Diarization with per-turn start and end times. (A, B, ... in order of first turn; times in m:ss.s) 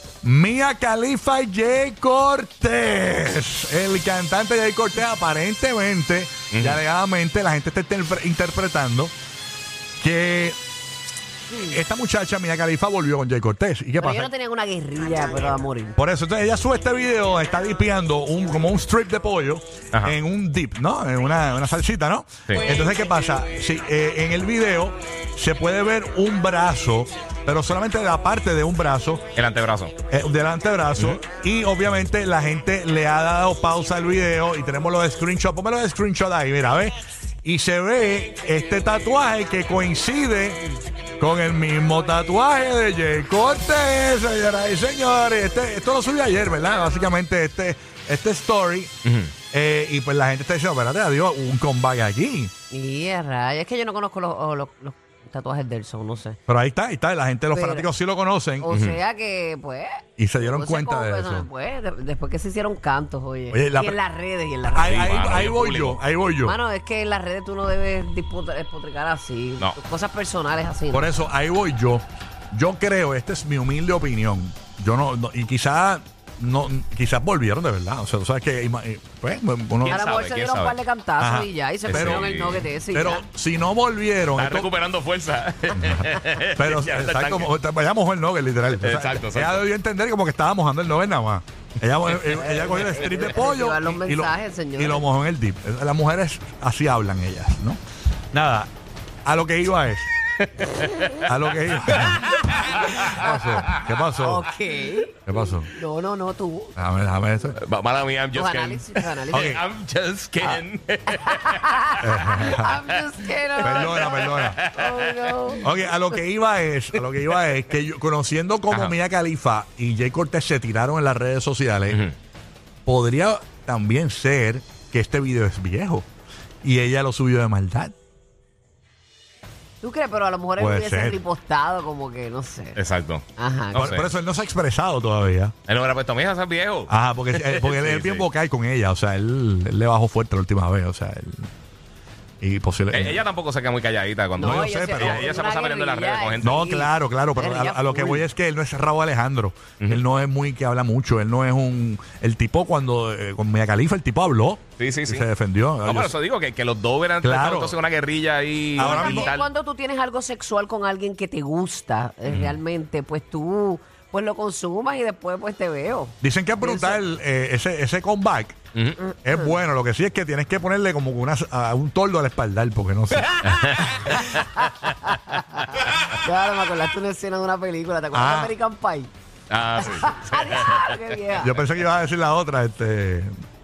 0:00.2-0:09.1 A
0:06.5-0:06.8 B
0:10.0-0:10.6 A
0:11.6-0:14.3 A
0:14.0-0:16.0 C
0:16.0-0:29.3 A
0:29.4-0:29.9 B
0:30.1-0:40.6 A
0:41.2-0:48.9 A
0:49.0-0:49.3 B
0:49.5-0:52.5 A
0:52.7-0:56.4 C
0:56.5-0:58.7 A
0:57.5-0:57.9 C
0:58.6-1:05.1 C
0:58.7-0:59.0 B
1:00.2-1:01.5 A
1:03.5-1:04.0 A
1:04.7-1:06.6 A
1:04.8-1:06.0 B
1:06.4-1:11.1 C
1:10.9-1:20.0 A
1:19.8-1:20.8 B
1:19.9-1:23.2 C
1:21.2-1:24.7 A
1:21.8-1:22.7 B
1:24.3-1:27.5 B
1:25.7-1:37.8 A
1:28.8-1:29.7 B
1:32.2-1:35.1 C
1:38.3-1:38.7 A
1:39.2-1:40.1 A
1:40.4-1:43.1 B
1:41.1-1:44.5 A
1:43.2-1:43.6 C
1:44.2-1:46.8 C
1:45.2-1:45.7 A
1:46.8-1:47.6 A
1:47.5-1:53.1 B
1:48.3-1:49.6 C
1:49.3-1:49.6 A
1:50.4-1:56.2 C
1:52.0-1:52.8 A
1:53.6-1:54.6 A
1:53.6-1:55.5 B
1:55.6-2:02.0 A
1:58.7-1:59.0 B
2:01.9-2:02.2 B
2:02.9-2:06.1 A
2:06.6-2:07.9 A
2:09.8-2:12.8 C
2:10.6-2:11.2 A
2:12.8-2:14.1 B
2:13.4-2:13.9 C
2:13.8-2:15.5 A
2:15.7-2:18.3 B
2:16.9-2:21.5 A
2:22.4-2:23.2 A
2:22.9-2:26.6 B
2:24.4-2:28.3 C
2:24.4-2:25.3 A
2:26.4-2:36.1 A
2:34.8-2:35.3 B
2:35.8-2:39.5 B
2:37.2-2:37.8 A
2:38.8-2:39.3 A
2:38.8-2:47.0 C
2:42.3-2:42.5 B
2:46.2-2:48.6 A
2:48.7-2:49.0 B
2:49.1-2:49.6 C
2:49.2-2:54.2 A
2:53.3-2:55.2 B
2:54.0-2:59.1 C
2:58.1-2:58.5 A
2:59.5-3:01.0 B
2:59.8-3:01.6 C
3:01.4-3:03.3 A